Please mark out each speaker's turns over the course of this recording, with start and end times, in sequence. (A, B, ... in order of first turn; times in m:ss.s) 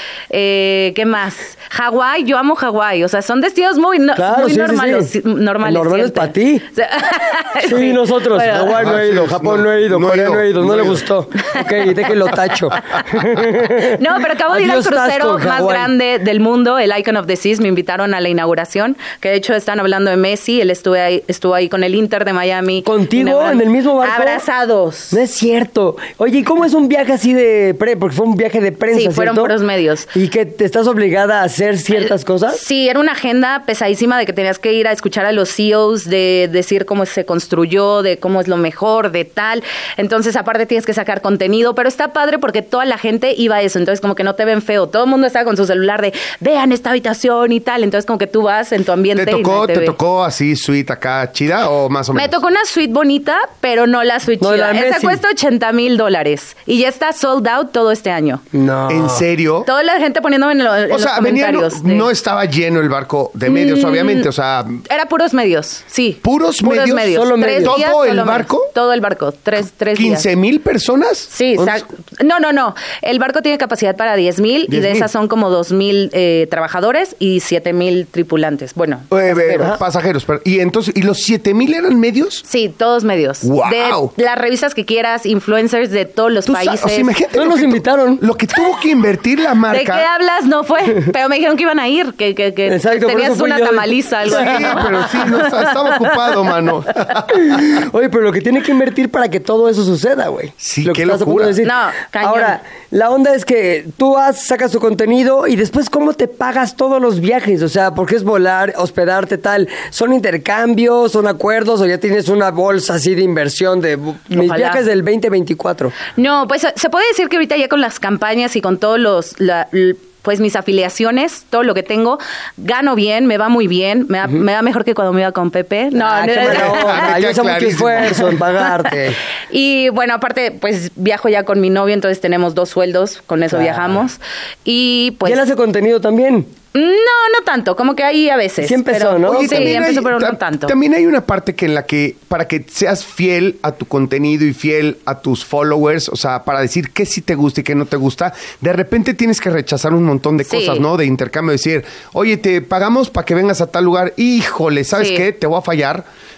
0:00.3-0:08.8 A
0:04.1-0:05.1 B
0:05.6-0:06.6 B
0:07.6-0:14.0 B
0:08.7-0:11.0 C
0:11.6-0:12.1 A
0:13.8-0:25.2 A
0:14.5-0:15.9 B
0:22.8-0:24.4 B
0:25.1-0:29.5 B
0:28.9-0:30.1 A
0:30.1-0:32.6 B
0:31.9-0:50.0 A
0:49.1-0:52.4 C
0:52.1-0:58.4 A
0:54.4-0:55.2 B
0:58.5-0:59.2 B
0:58.9-0:59.7 C
0:59.6-1:02.1 A
1:00.9-1:04.8 C
1:03.5-1:04.3 A
1:04.9-1:10.3 A
1:06.2-1:08.7 C
1:07.1-1:07.8 B
1:09.9-1:11.8 C
1:11.3-1:19.8 A
1:14.7-1:15.1 C
1:19.1-1:22.4 C
1:22.4-1:27.1 A
1:23.4-1:24.1 C
1:26.5-1:30.1 C
1:27.3-1:28.2 B
1:29.7-1:36.1 A
1:32.6-1:35.4 B
1:34.2-1:37.8 C
1:37.3-1:55.9 B
1:40.6-1:41.6 C
1:41.6-1:42.6 A
1:54.3-1:54.8 A
1:56.2-2:07.2 A
2:05.9-2:09.2 B
2:06.4-2:08.3 C
2:08.2-2:09.0 A
2:09.5-2:15.4 A
2:13.5-2:14.0 B
2:15.2-2:16.5 B
2:16.7-2:20.7 A
2:18.6-2:19.8 B
2:19.2-2:36.0 C
2:30.5-2:30.8 A
2:35.0-2:35.2 A